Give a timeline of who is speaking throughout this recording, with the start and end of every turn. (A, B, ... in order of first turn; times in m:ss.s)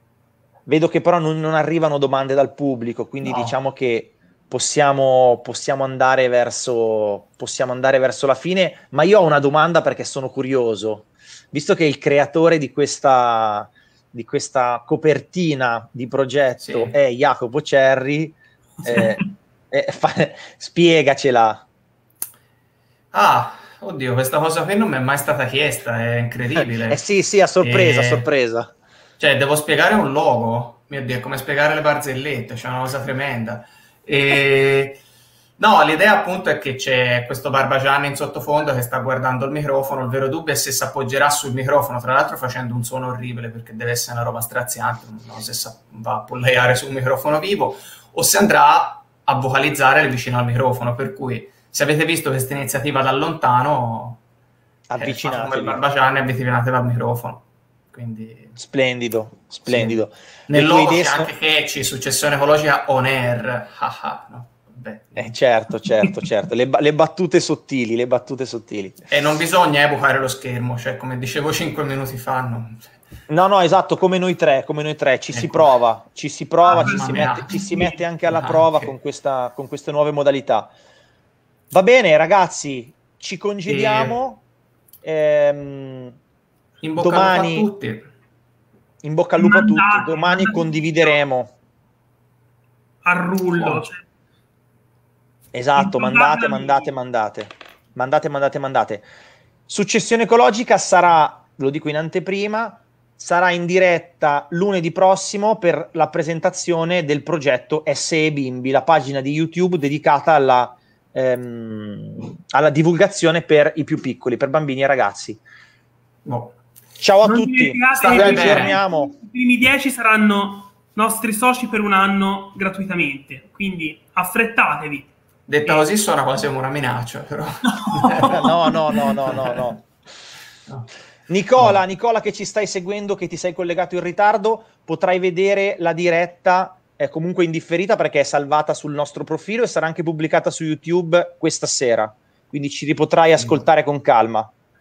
0:00.7-0:21.7 A
0:16.6-0:17.0 B
0:18.8-0:19.3 C
0:23.1-0:27.0 B
0:26.6-0:28.7 A
0:27.6-0:28.3 B
0:29.2-0:35.0 B
0:35.6-0:54.2 B
0:54.9-0:55.8 A
0:55.0-0:58.6 B
0:58.6-1:01.3 A
0:59.7-1:05.3 B
1:05.2-1:09.0 A
1:09.1-1:12.9 B
1:13.3-1:20.7 A
1:15.3-1:15.7 B
1:16.6-1:18.0 C
1:16.7-1:17.5 B
1:18.3-1:18.9 B
1:21.7-1:24.4 A
1:23.6-1:24.2 B
1:25.0-1:26.2 A
1:26.8-1:28.1 B
1:27.0-1:27.7 A
1:29.0-1:31.6 A
1:29.4-1:31.2 C
1:33.0-1:34.0 C
1:33.5-1:33.9 B
1:35.5-1:39.1 A
1:35.8-1:37.0 C
1:39.7-1:55.4 A
1:56.2-1:56.6 B
1:57.0-1:59.1 A
1:57.2-2:05.1 C
1:58.1-1:58.8 B
2:05.5-2:08.4 B
2:07.8-2:09.2 C
2:08.3-2:09.8 A
2:09.2-2:09.7 B
2:11.3-2:24.5 A
2:23.4-2:23.6 B